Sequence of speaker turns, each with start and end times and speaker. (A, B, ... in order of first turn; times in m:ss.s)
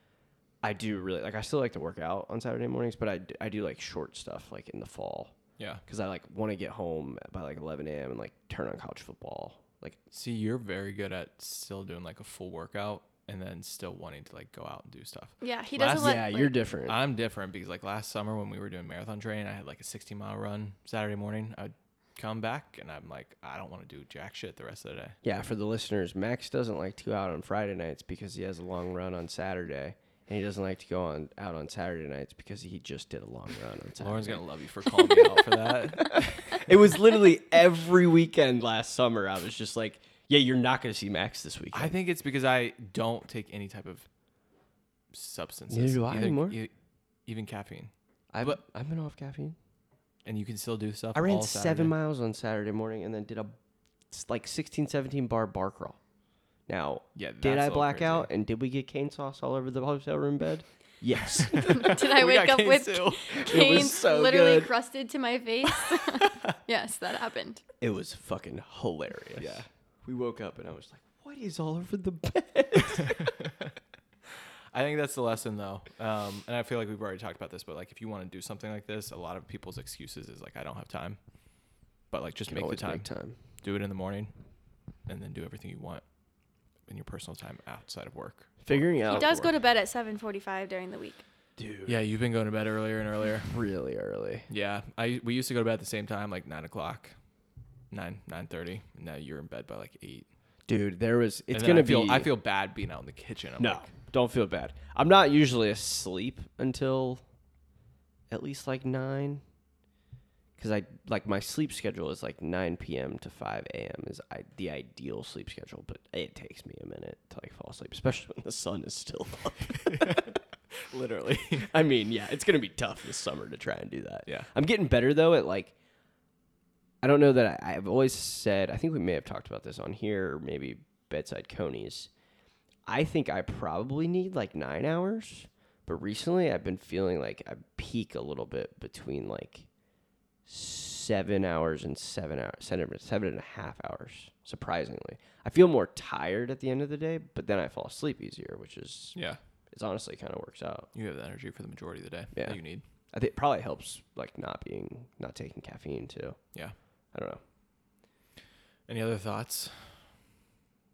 0:00.6-0:10.0 A
0:10.1-0:16.3 B
0:15.4-0:16.6 C
0:16.0-0:17.0 A
0:16.9-0:25.2 B
0:25.2-0:34.4 A
0:34.0-0:36.7 B
0:36.0-0:41.9 A
0:41.7-0:44.1 B
0:45.1-0:46.7 B
0:45.7-0:46.6 A
0:47.3-0:48.6 B
0:48.3-0:49.6 A
0:50.2-0:51.9 B
0:51.1-0:53.6 A
0:54.1-0:56.0 A
0:56.7-1:01.9 A
0:57.2-0:58.3 B
1:01.4-1:03.9 B
1:01.7-1:07.6 C
1:03.4-1:04.7 A
1:07.8-1:13.4 A
1:09.4-1:09.7 B
1:14.7-1:21.2 B
1:22.1-1:23.1 B
1:22.5-1:23.4 A
1:23.6-1:24.3 B
1:25.1-1:26.0 B
1:26.9-1:29.6 B
1:28.6-1:29.3 A
1:29.1-1:31.2 C
1:31.6-1:32.0 A
1:31.9-1:33.6 B
1:33.4-1:34.5 A
1:34.5-1:37.2 B
1:37.9-1:40.3 B
1:40.7-1:42.3 A
1:41.5-1:43.9 B
1:43.6-1:47.2 A
1:48.3-1:49.4 A
1:50.6-2:00.4 A
2:00.9-2:01.7 B
2:01.6-2:05.8 A
2:07.0-2:12.1 A
2:12.9-2:19.7 A
2:20.5-2:29.2 A
2:29.7-2:30.9 A
2:30.9-2:32.8 B
2:32.3-2:36.4 A
2:37.1-2:37.4 A
2:38.9-2:40.0 B